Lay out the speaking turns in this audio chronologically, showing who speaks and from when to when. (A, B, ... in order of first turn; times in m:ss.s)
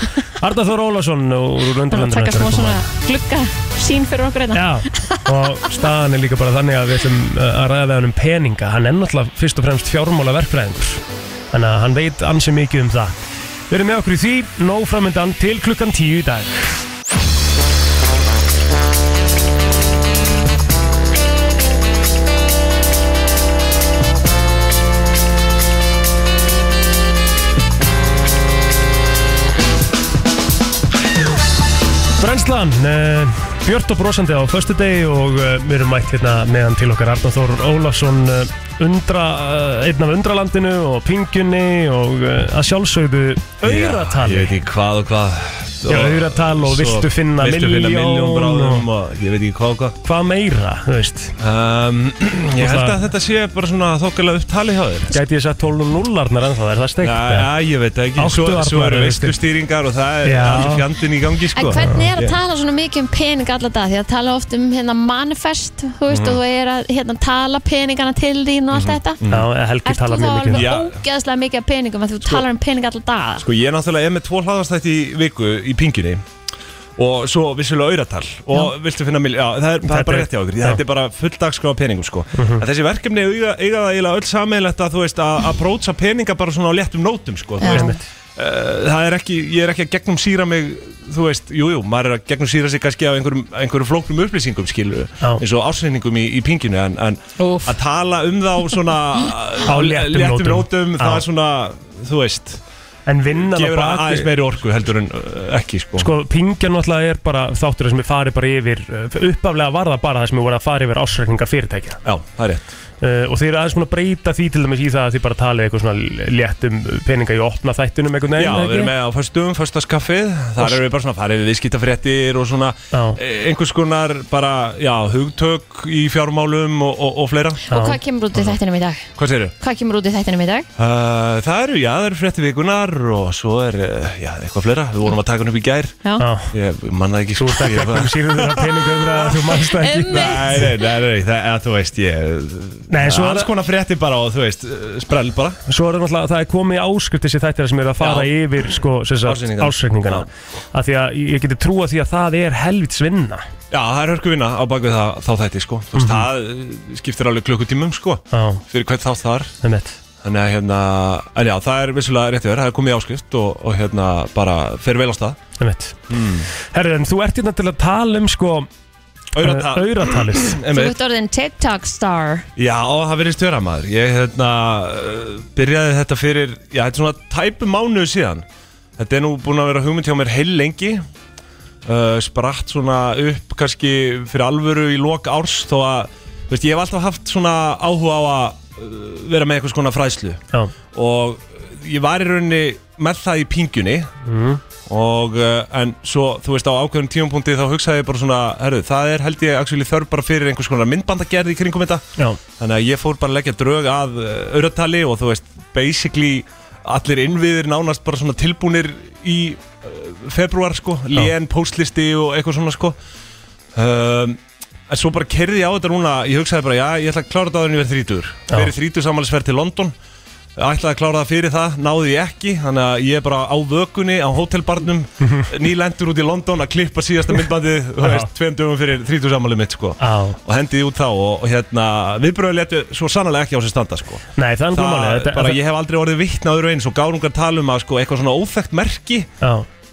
0:00.4-0:02.8 A
0:01.9-0:05.3 B
0:04.5-0:16.8 A
0:32.2-0:44.5 A
0:43.6-0:50.0 C
0:45.9-0:48.9 A
0:50.0-0:51.4 A
0:51.4-0:55.1 C
0:52.5-0:53.0 A
0:55.1-0:57.5 A
0:57.0-1:02.4 C
0:58.1-0:59.4 A
1:00.2-1:00.8 A
1:01.5-1:09.2 B
1:06.1-1:06.4 C
1:08.7-1:09.5 C
1:09.3-1:10.7 A
1:09.8-1:13.4 B
1:10.5-1:11.0 C
1:13.4-1:16.2 C
1:17.0-1:42.6 C
1:19.8-1:20.8 A
1:22.3-1:22.6 A
1:27.6-1:28.0 B
1:27.6-1:28.0 A
1:37.4-1:37.7 B
1:39.6-1:41.2 A
1:43.0-1:44.3 A
1:43.4-1:46.1 C
1:46.0-1:52.0 A
1:52.0-1:52.7 C
1:53.0-1:58.9 A
1:58.4-2:07.6 C
2:02.9-2:03.2 A
2:07.7-2:10.7 B
2:07.7-2:08.0 A
2:09.2-2:09.5 C
2:10.8-2:16.0 C
2:16.2-2:16.5 A
2:16.5-2:25.6 C
2:17.4-2:20.6 A
2:19.8-2:20.7 B
2:22.9-2:23.5 A
2:25.6-2:33.4 A
2:28.0-2:28.3 C
2:29.2-2:30.3 C
2:33.7-2:39.5 C
2:35.9-2:36.3 A
2:38.3-2:38.6 A
2:39.6-2:40.0 A
2:40.2-2:45.4 C
2:45.6-2:48.7 A
2:46.1-2:46.5 C
2:49.3-2:50.9 C
2:49.4-2:50.6 A
2:50.7-2:52.5 B
2:52.6-2:58.4 C
2:59.0-3:01.0 C
3:01.8-3:10.4 C
3:10.9-3:14.1 C
3:14.2-3:14.6 A
3:14.8-3:22.0 C
3:22.6-3:33.0 C
3:33.7-3:39.9 C
3:40.6-3:59.3 C
3:45.2-3:45.5 A
3:48.0-3:48.3 A
3:50.0-3:50.4 A
3:54.4-3:55.6 A
3:59.4-3:59.7 A